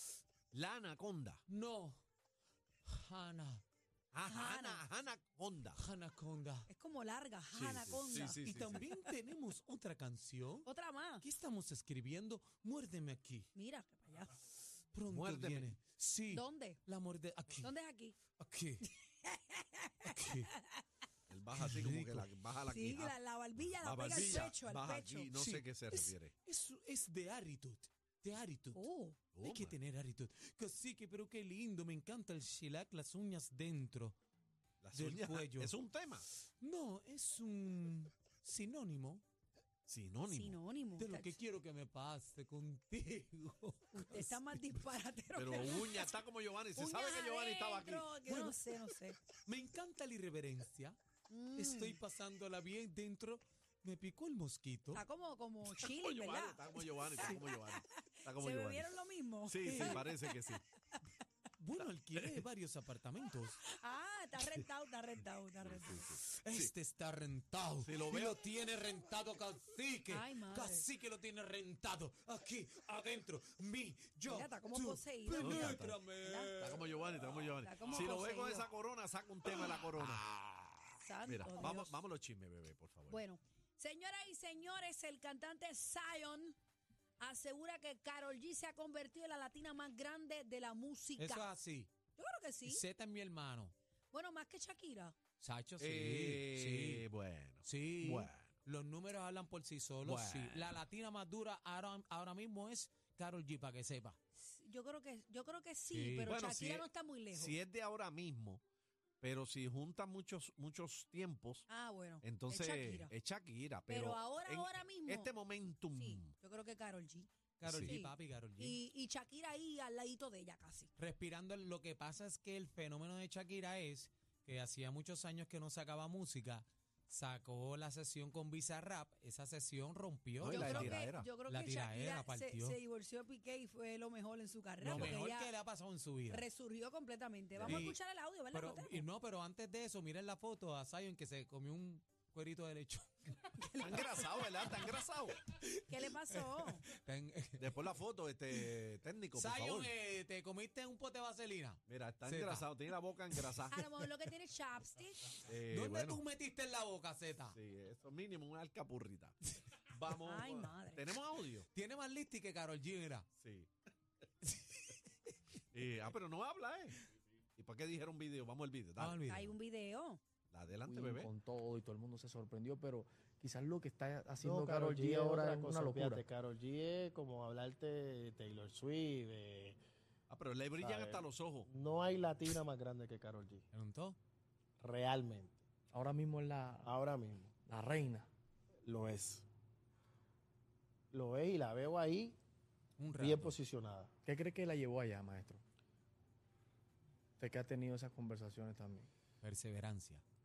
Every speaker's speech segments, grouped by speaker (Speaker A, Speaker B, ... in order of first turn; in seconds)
Speaker A: 0.5-1.4, 4.1-5.8, 7.5-8.9, 15.1-15.8, 21.3-23.2, 23.8-26.4, 29.3-29.8, 34.8-36.2, 39.9-40.6, 45.4-48.2, 56.0-58.9, 59.5-60.6, 61.8-62.4, 65.6-66.7, 67.8-68.4, 75.3-76.0, 76.6-80.2, 81.2-83.2, 95.8-98.6, 100.0-100.8, 106.3-108.6, 109.2-111.7, 112.2-116.3, 117.7-118.0, 130.4-131.3, 137.6-137.9, 143.8-145.4, 147.6-149.9, 151.9-153.8, 155.4-156.2, 157.5-159.4, 159.9-161.7, 163.4-163.7, 165.7-167.0, 167.6-169.2, 170.5-171.3, 180.3-181.7
Speaker B: 1.5-2.0, 2.9-3.6, 5.8-6.7, 8.4-10.7, 11.2-13.5, 14.9-17.7, 18.3-18.9, 20.0-20.5, 21.6-22.3, 25.3-28.9, 29.4-34.2, 34.9-35.8, 36.3-39.2, 41.0-44.6, 48.2-51.0, 51.5-55.0, 59.7-60.1, 61.6-63.6, 66.1-78.2, 79.6-81.0, 91.2-92.0, 92.7-93.7, 95.4-97.0, 97.6-104.2, 105.9-106.3, 117.6-118.8, 121.0-132.8, 134.8-136.5, 137.7-138.0, 138.5-143.1, 144.5-147.9, 148.5-148.8, 149.3-153.6, 155.3-157.6, 161.7-163.3, 164.4-165.3, 169.0-169.5, 183.7-184.2, 193.0-193.6, 199.4-200.2
Speaker C: 4.2-4.8, 6.7-8.4, 10.6-11.2, 13.5-14.3, 16.3-16.8, 17.6-18.2, 18.8-20.8, 22.7-25.3, 28.7-29.2, 40.3-41.4, 43.9-46.1, 46.8-49.2, 51.3-52.0, 54.9-60.6, 63.6-66.1, 70.1-70.9, 74.3-76.5, 77.5-78.7, 81.0-82.0, 83.1-86.6, 87.2-91.5, 92.2-92.8, 94.1-95.2, 104.4-107.6, 111.7-113.1, 113.9-115.3, 116.0-120.9, 130.5-135.5, 136.3-139.1, 143.5-144.4, 145.9-146.8, 153.7-155.4, 160.2-161.1, 169.3-170.2
Speaker D: 170.8-176.2, 185.9-186.9, 187.7-188.3, 194.2-195.6, 197.4-199.1
Speaker E: 174.4-179.8, 180.8-183.6, 184.8-185.6, 186.8-187.5, 188.9-189.4, 191.1-192.4, 193.2-194.1